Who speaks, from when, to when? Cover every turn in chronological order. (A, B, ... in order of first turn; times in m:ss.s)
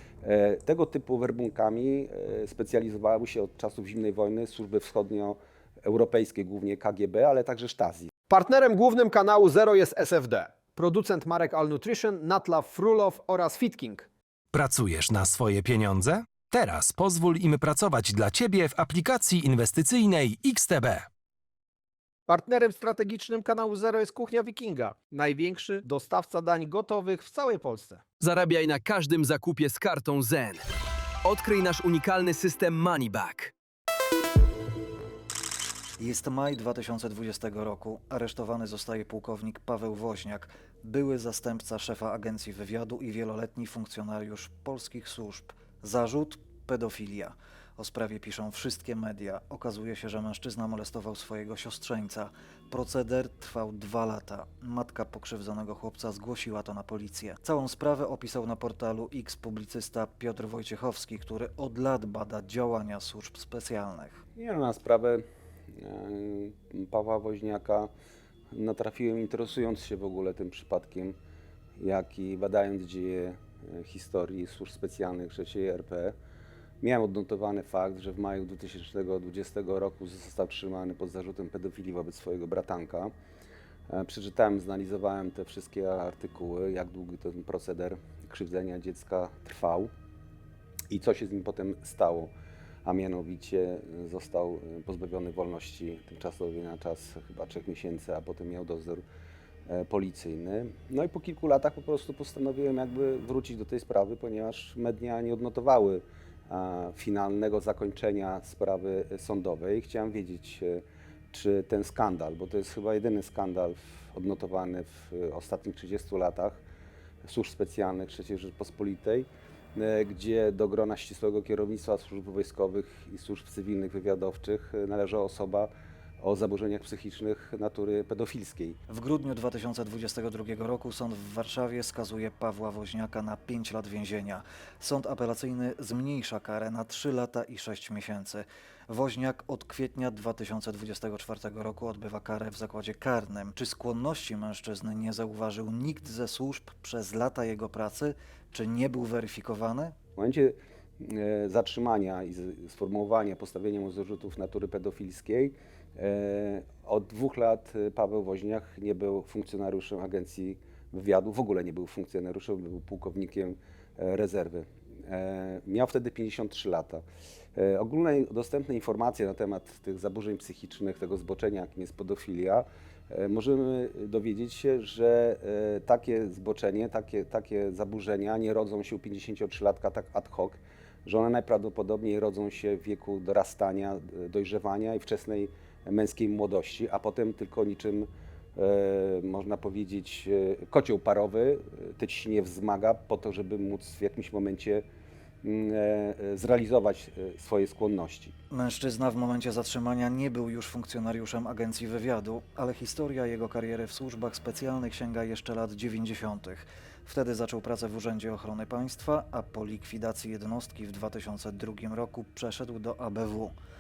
0:00.2-0:08.1 A
0:08.3-0:14.1 B
0:14.5-0:21.1 C
0:22.3-0:28.0 B
0:28.2-0:30.6 D
0:31.2-0:33.5 D
0:36.0-1:04.2 E
1:04.4-1:05.2 A
1:05.8-1:07.9 A
1:08.5-1:11.2 A
1:11.8-1:16.2 A
1:16.8-1:23.1 A
1:23.9-1:29.9 A
1:30.9-1:32.3 A
1:32.8-1:39.0 A
1:39.7-1:56.6 A
1:57.2-2:08.8 A
2:08.9-2:30.0 E
2:30.2-2:47.0 A
2:47.6-3:14.8 A
3:15.4-3:18.3 A
3:18.5-3:33.6 E